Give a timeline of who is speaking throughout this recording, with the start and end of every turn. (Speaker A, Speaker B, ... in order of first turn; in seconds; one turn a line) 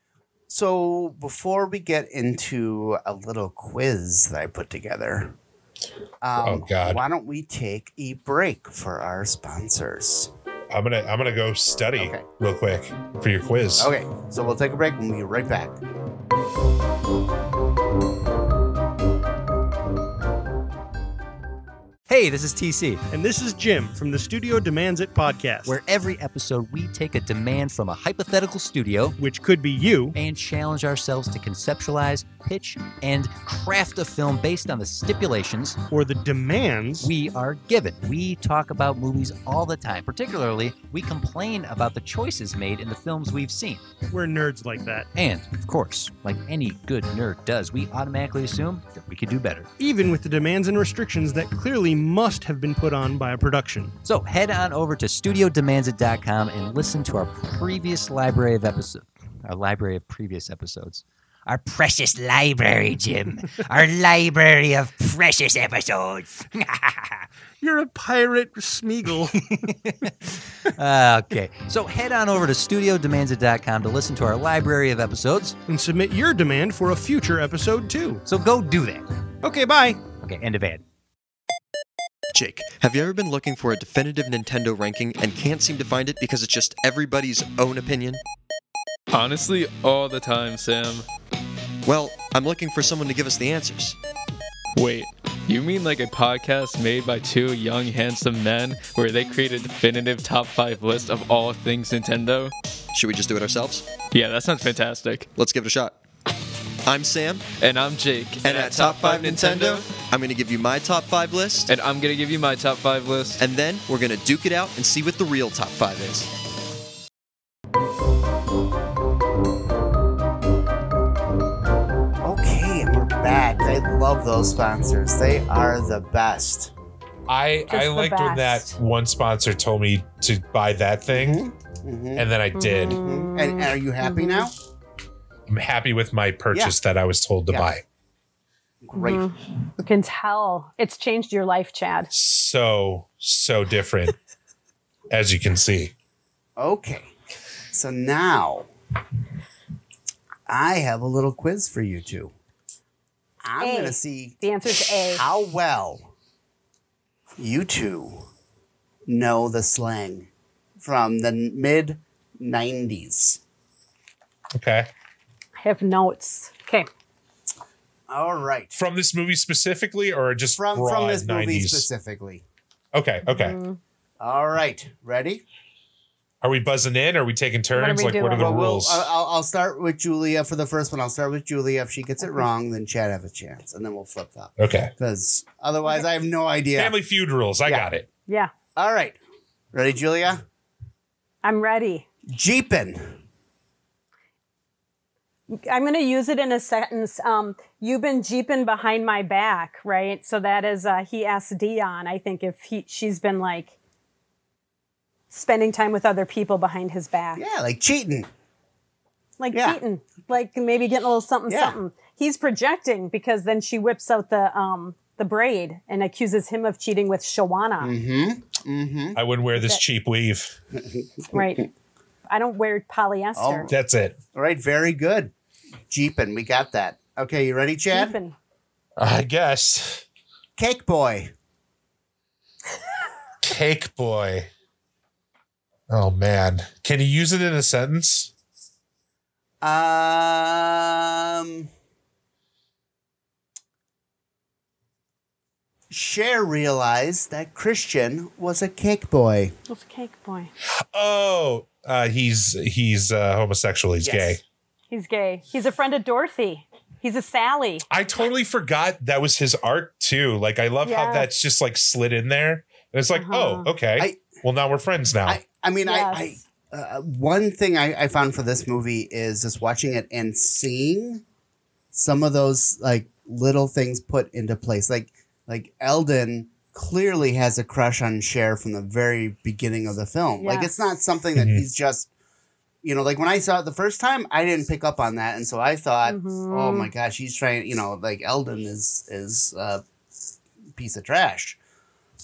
Speaker A: 0.5-5.3
Speaker A: 6.2-10.3
Speaker B: 6.4-7.0
Speaker B: 10.7-13.9
Speaker A: 12.0-12.3
Speaker A: 13.8-15.8
Speaker C: 22.1-23.0
Speaker D: 23.1-25.8
Speaker C: 25.6-29.2
Speaker D: 29.2-30.1
Speaker C: 30.1-35.8
Speaker D: 35.9-37.1
Speaker C: 37.0-43.8
Speaker D: 44.1-45.1
Speaker C: 45.1-49.7
Speaker D: 49.8-53.9
Speaker C: 54.0-67.3
Speaker D: 67.6-69.7
Speaker C: 69.7-75.6
Speaker D: 75.7-78.2
Speaker C: 78.2-79.1
Speaker D: 79.4-80.0
Speaker C: 80.2-80.8
Speaker D: 82.3-82.7
Speaker E: 82.7-88.2
Speaker F: 89.1-91.1
Speaker E: 91.8-94.0
Speaker F: 94.8-102.5
Speaker E: 102.9-103.9
Speaker F: 104.1-105.3
Speaker E: 105.3-106.0
Speaker E: 106.8-107.5
Speaker F: 107.6-110.0
Speaker E: 108.4-111.7
Speaker F: 111.7-113.4
Speaker E: 113.4-116.3
Speaker A: 122.2-126.7
Speaker B: 127.3-131.4
Speaker G: 127.7-128.8
Speaker A: 131.1-132.3
Speaker B: 132.1-133.0
Speaker G: 132.5-134.5
Speaker A: 132.9-134.5
Speaker B: 135.5-137.8
Speaker A: 138.8-139.2
Speaker G: 138.9-142.1
Speaker B: 142.1-144.2
Speaker B: 145.1-145.9
Speaker A: 146.6-147.1
Speaker A: 147.7-148.7
Speaker A: 150.5-152.3
Speaker A: 153.4-154.4
Speaker G: 153.6-155.2
Speaker A: 155.0-156.1
Speaker A: 157.4-158.3
Speaker A: 159.1-163.4
Speaker B: 164.5-164.9
Speaker G: 165.6-166.9
Speaker A: 168.1-168.8
Speaker B: 168.7-171.9
Speaker A: 170.5-172.4
Speaker B: 172.9-173.6
Speaker G: 173.2-173.8
Speaker A: 174.2-175.4
Speaker B: 176.4-179.1
Speaker G: 177.7-178.6
Speaker A: 178.4-186.9
Speaker B: 184.6-184.9
Speaker B: 186.8-188.1
Speaker A: 188.8-189.2
Speaker A: 189.7-190.4
Speaker G: 191.4-192.0
Speaker A: 192.3-193.2
Speaker G: 195.5-203.7
Speaker G: 205.3-207.4
Speaker A: 207.3-208.3
Speaker G: 209.4-217.9
Speaker A: 209.5-209.8
Speaker A: 211.5-211.8
Speaker A: 217.8-219.2
Speaker B: 219.1-220.6
Speaker G: 221.3-221.7
Speaker G: 222.3-223.7
Speaker A: 223.3-223.7
Speaker B: 223.7-224.2
Speaker A: 224.3-225.3
Speaker A: 225.9-228.2
Speaker G: 227.9-228.3
Speaker B: 229.0-230.0
Speaker A: 230.6-231.3
Speaker B: 233.4-234.5
Speaker B: 235.9-238.3
Speaker A: 239.6-241.7
Speaker A: 245.9-249.5
Speaker G: 249.7-250.5
Speaker B: 250.9-254.4
Speaker A: 254.0-254.4
Speaker G: 254.9-257.8
Speaker B: 257.9-265.4
Speaker G: 260.8-261.3
Speaker G: 263.1-263.7
Speaker A: 265.2-271.2
Speaker G: 265.8-266.3
Speaker A: 271.9-282.1
Speaker G: 280.4-280.7
Speaker B: 281.3-281.6
Speaker A: 282.8-289.8
Speaker G: 286.0-286.9
Speaker A: 290.7-291.6